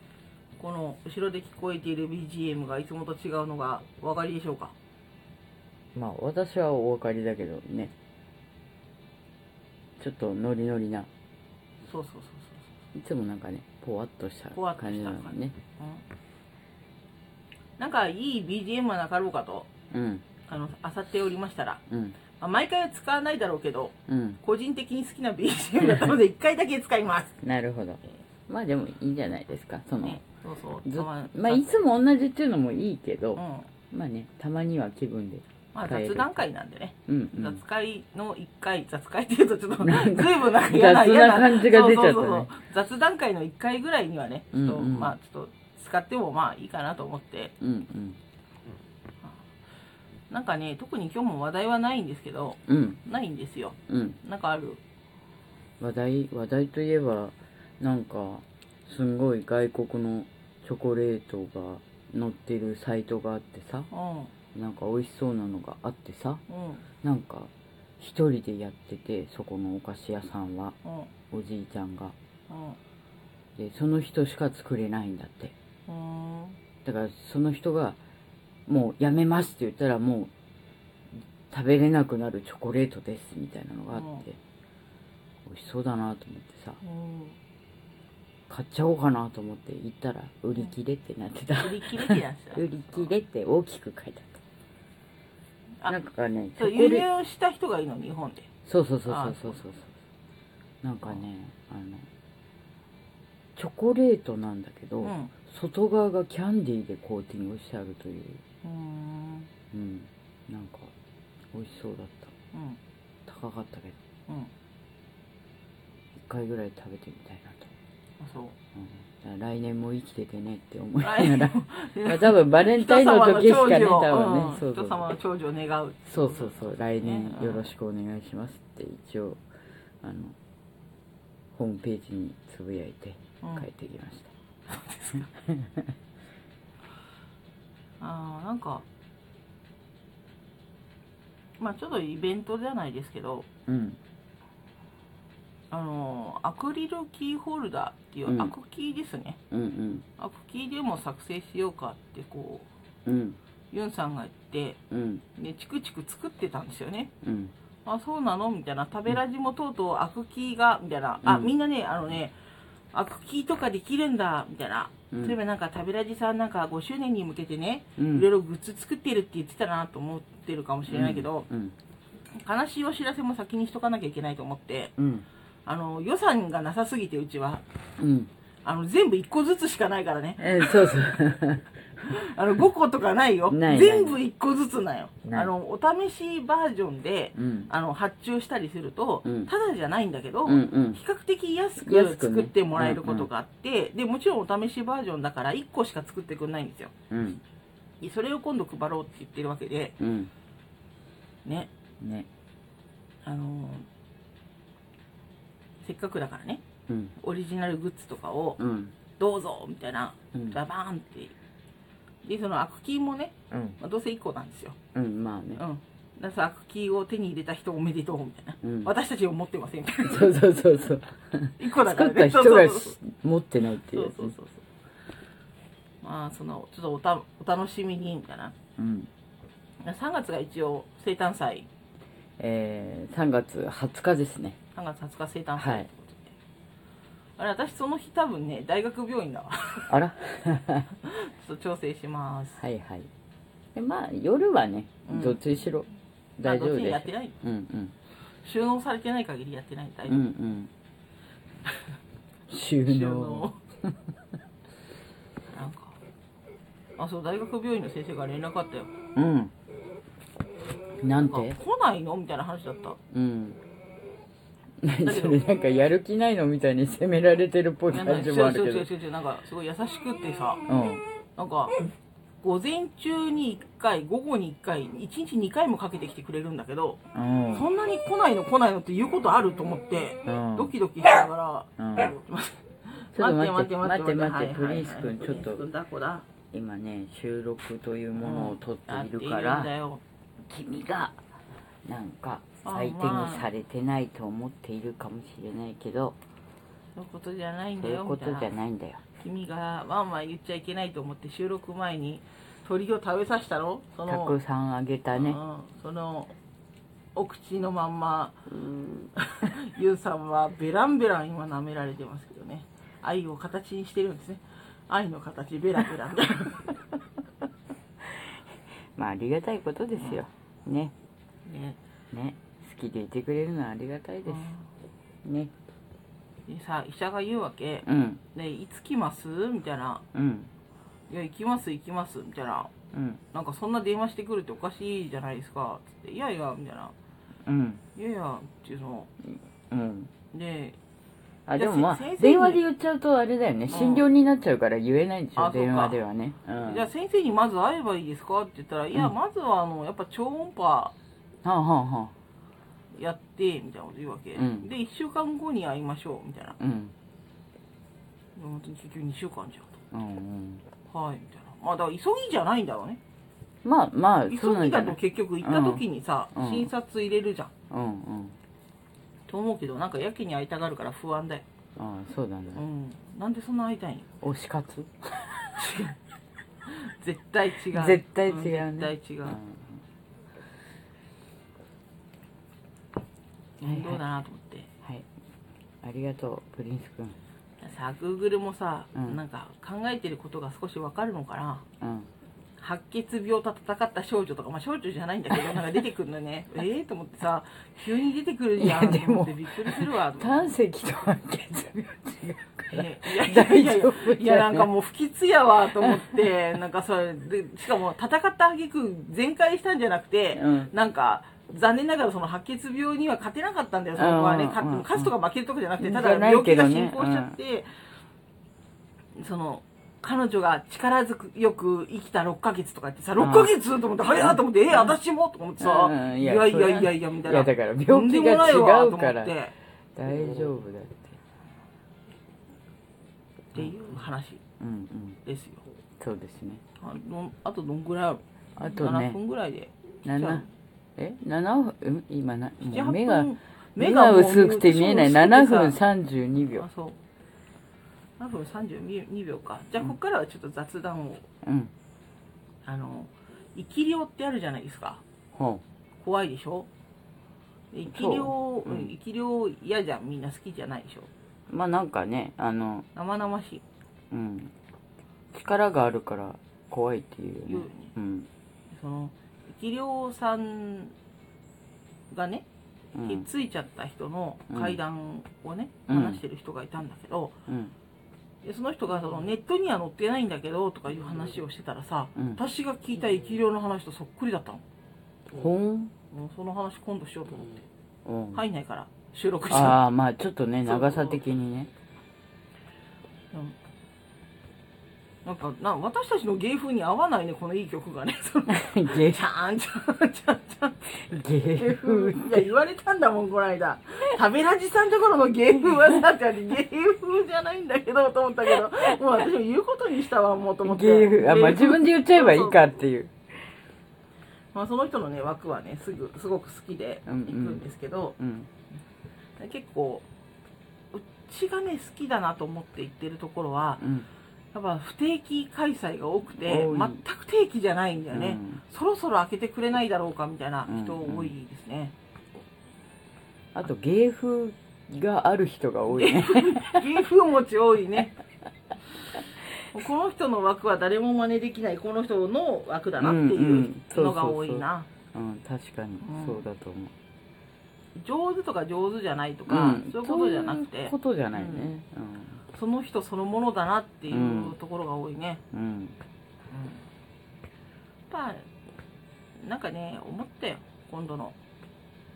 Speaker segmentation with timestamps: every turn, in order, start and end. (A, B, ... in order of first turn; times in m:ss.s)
0:00.6-0:04.7 A
0:05.9-0:07.9 B
0:10.0-0:11.1 B
0:11.8-0:12.6 A
0:12.9-0:15.6 B
0:14.5-0:16.0 A
0:17.8-0:19.7 A
0:19.9-0:20.2 B
0:20.5-0:21.8 A
0:21.9-0:22.2 B
0:22.4-0:27.4 A
0:24.1-0:24.4 B
0:27.4-0:30.2 B
0:30.0-0:31.7 A
0:30.8-0:36.3 B
0:33.4-0:33.7 A
0:35.7-0:47.5 A
0:37.1-0:37.6 B
0:39.8-0:42.5 B
0:44.5-0:45.1 B
0:47.6-0:48.2 B
0:50.3-0:54.8 A
0:52.7-0:53.0 B
0:53.9-0:54.2 B
0:55.8-1:03.9 B
1:03.9-1:04.3 A
1:04.5-1:06.4 B
1:06.5-1:06.8 A
1:07.0-1:10.8 B
1:10.8-1:11.1 A
1:11.3-1:12.1 B
1:12.5-1:12.8 A
1:13.6-1:15.5 B
1:15.9-1:16.6 A
1:16.8-1:18.0 B
1:18.7-1:20.3 B
1:21.5-1:24.4 B
1:23.9-1:24.2 A
1:25.4-1:26.8 B
1:26.8-1:27.4 A
1:28.5-1:34.4 B
1:31.6-1:33.1 A
1:35.9-1:37.1 B
1:36.6-1:38.5 A
1:38.6-1:39.9 B
1:39.0-1:39.6 A
1:40.8-1:42.0 B
1:43.6-1:48.4 B
1:45.0-1:45.3 A
1:48.6-1:49.5 A
1:49.7-1:50.9 B
1:51.5-1:52.3 B
1:52.5-1:52.8 A
1:53.2-1:54.0 B
1:56.2-1:57.7 B
1:58.2-1:58.5 A
1:58.7-2:05.0 B
2:01.0-2:07.7 A
2:06.1-2:09.4 B
2:10.0-2:10.4 B
2:11.5-2:14.3 B
2:13.4-2:13.7 A
2:14.7-2:15.3 A
2:15.4-2:15.9 B
2:18.0-2:18.8 A
2:21.6-2:23.5 A
2:23.7-2:24.0 B
2:25.7-2:29.4 A
2:28.3-2:28.5 B
2:29.5-2:30.0 B
2:30.2-2:32.7 A
2:33.0-2:33.4 B
2:33.7-2:34.8 A
2:34.9-2:35.2 B
2:35.3-2:37.1 A
2:37.2-2:37.5 B
2:37.8-2:42.3 A
2:41.2-2:41.5 B
2:42.9-2:51.4 A
2:45.1-2:45.4 B
2:48.0-2:48.3 B
2:50.9-2:51.7 B
2:52.3-2:54.9 A
2:55.0-2:55.2 B
2:55.6-2:57.6 A
2:58.0-2:58.3 B
2:58.6-3:01.0 A
3:00.4-3:02.1 B
3:02.0-3:16.9 A
3:03.5-3:04.2 B
3:05.2-3:05.5 B
3:07.3-3:07.7 B
3:09.2-3:09.5 B
3:10.4-3:11.0 B
3:11.8-3:13.3 B
3:17.1-3:17.4 B
3:18.0-3:20.0 A
3:20.0-3:20.3 B
3:21.4-3:21.7 A
3:22.0-3:22.3 B
3:23.2-3:23.9 A
3:25.8-3:26.6 A
3:26.9-3:27.1 B
3:27.2-3:28.6 A
3:28.6-3:28.9 B
3:29.2-3:31.4 A
3:32.2-3:34.8 A
3:33.5-3:33.8 B
3:34.9-3:35.6 B
3:35.6-3:40.4 A
3:38.6-3:38.9 B
3:40.0-3:44.3 B
3:41.6-3:43.0 A
3:43.9-3:44.6 A
3:46.0-3:48.5 A
3:48.8-3:49.1 B
3:49.8-3:51.7 A
3:52.4-3:54.6 B
3:54.7-3:56.3 A
3:55.6-3:55.9 B
3:57.4-3:59.9 A
3:59.9-4:00.9 B
4:01.0-4:02.6 A
4:02.6-4:03.1 B
4:03.7-4:07.9 B
4:05.0-4:05.4 A
4:06.4-4:07.4 A
4:08.4-4:10.2 A
4:10.1-4:10.7 B
4:12.5-4:13.5 B
4:12.8-4:13.6 A
4:15.5-4:16.0 A
4:17.0-4:18.9 A
4:19.2-4:19.5 B
4:21.0-4:21.6 B
4:21.2-4:23.0 A
4:23.1-4:23.6 B
4:24.8-4:28.9 B
4:25.0-4:25.4 A
4:27.9-4:30.6 A
4:30.7-4:31.0 B
4:31.4-4:31.7 A
4:32.4-4:37.0 A
4:37.1-4:37.6 B
4:37.5-4:46.3 A
4:40.2-4:40.7 B
4:41.8-4:42.1 B
4:43.1-4:45.6 B
4:46.5-4:49.7 B
4:48.2-4:50.0 A
4:50.4-4:51.2 B
4:51.8-4:56.2 B
4:52.6-4:53.5 A
4:57.0-4:58.5 A
4:57.8-4:59.0 B
4:59.2-5:04.4 A
5:04.1-5:05.4 B
5:05.1-5:06.3 A
5:07.1-5:08.5 A
5:08.5-5:09.1 B
5:09.2-5:16.8 A
5:18.1-5:18.4 B
5:18.9-5:20.9 B
5:20.0-5:20.2 A
5:21.4-5:21.8 A
5:22.1-5:24.5 B
5:24.2-5:24.7 A
5:25.2-5:25.5 B
5:26.5-5:30.0 A
5:27.8-5:28.2 B
5:30.1-5:30.5 B
5:31.1-5:32.7 A
5:32.9-5:33.2 B
5:33.3-5:36.9 A
5:37.4-5:37.8 B
5:37.9-5:39.1 A
5:39.2-5:40.1 B
5:40.3-5:40.8 A
5:41.5-5:46.9 B
5:41.5-5:42.6 A
5:43.7-5:44.0 A
5:45.4-5:46.0 A
5:46.6-5:50.9 A
5:51.4-5:52.1 B
5:52.9-5:56.6 A
5:54.4-5:54.7 B
5:56.6-5:56.9 B
5:58.4-5:59.7 A
5:59.9-6:00.6 B
6:00.9-6:03.0 A
6:03.6-6:06.7 B
6:04.3-6:07.5 A
6:07.7-6:08.4 B
6:09.3-6:11.4 A
6:11.8-6:12.6 B
6:12.6-6:14.1 A
6:14.2-6:15.5 B
6:15.6-6:16.0 A
6:16.6-6:19.4 A
6:17.7-6:19.8 B
6:23.6-6:24.7 A
6:23.6-6:24.0 B
6:25.8-6:27.2 B
6:27.6-6:31.6 A
6:28.9-6:29.2 B
6:31.8-6:32.1 B
6:32.6-6:40.5 A
6:38.6-6:44.7 B
6:42.7-6:57.7 A
6:45.8-6:46.3 B
6:50.3-6:50.7 B
6:54.0-6:55.1 B
6:55.8-6:57.4 B
6:59.1-7:09.5 A
7:03.2-7:05.0 B
7:05.6-7:09.4 B
7:10.0-7:11.2 B
7:13.5-7:14.4 A
7:14.6-7:15.2 B
7:15.2-7:15.6 A
7:16.0-7:16.6 B
7:16.8-7:20.5 A
7:18.6-7:19.2 B
7:20.0-7:20.4 B
7:21.0-7:26.6 B
7:22.6-7:25.8 A
7:26.6-7:27.0 A
7:28.2-7:31.2 A
7:31.4-7:31.7 B
7:32.6-7:35.0 A
7:35.3-7:35.6 B
7:36.0-7:36.7 A
7:37.7-7:41.1 A
7:37.9-7:38.9 B
7:41.5-7:42.9 B
7:42.9-7:43.6 A
7:44.1-7:44.5 B
7:45.3-7:48.3 B
7:47.4-7:47.9 A
7:48.7-7:50.9 A
7:52.1-7:52.4 A
7:52.9-7:53.3 B
7:53.0-7:57.3 A
7:54.5-7:54.8 B
7:55.9-7:56.2 B
7:57.5-7:57.7 B
7:58.4-8:04.6 A
8:05.3-8:05.9 B
8:06.1-8:07.6 A
8:08.0-8:08.4 B
8:08.3-8:09.8 A
8:09.5-8:11.7 B
8:10.6-8:11.2 A
8:15.2-8:21.0 A
8:18.5-8:19.2 B
8:21.0-8:22.5 B
8:21.5-8:32.6 A
8:30.6-8:33.1 B
8:34.5-8:38.2 A
8:37.0-8:37.6 B
8:38.2-8:38.5 B
8:39.4-8:40.0 A
8:40.9-8:43.8 A
8:43.8-8:44.1 B
8:44.5-8:51.9 A
8:46.4-8:47.0 B
8:48.1-8:48.6 B
8:50.7-8:51.3 B
8:53.5-8:56.9 B
8:55.9-8:58.1 A
8:59.7-9:04.9 A
9:03.0-9:06.9 B
9:06.0-9:06.4 A
9:08.0-9:11.7 A
9:09.5-9:12.4 B
9:12.5-9:15.4 A
9:14.1-9:14.6 B
9:15.5-9:16.0 B
9:16.5-9:16.8 A
9:18.1-9:18.4 A
9:19.4-9:21.4 A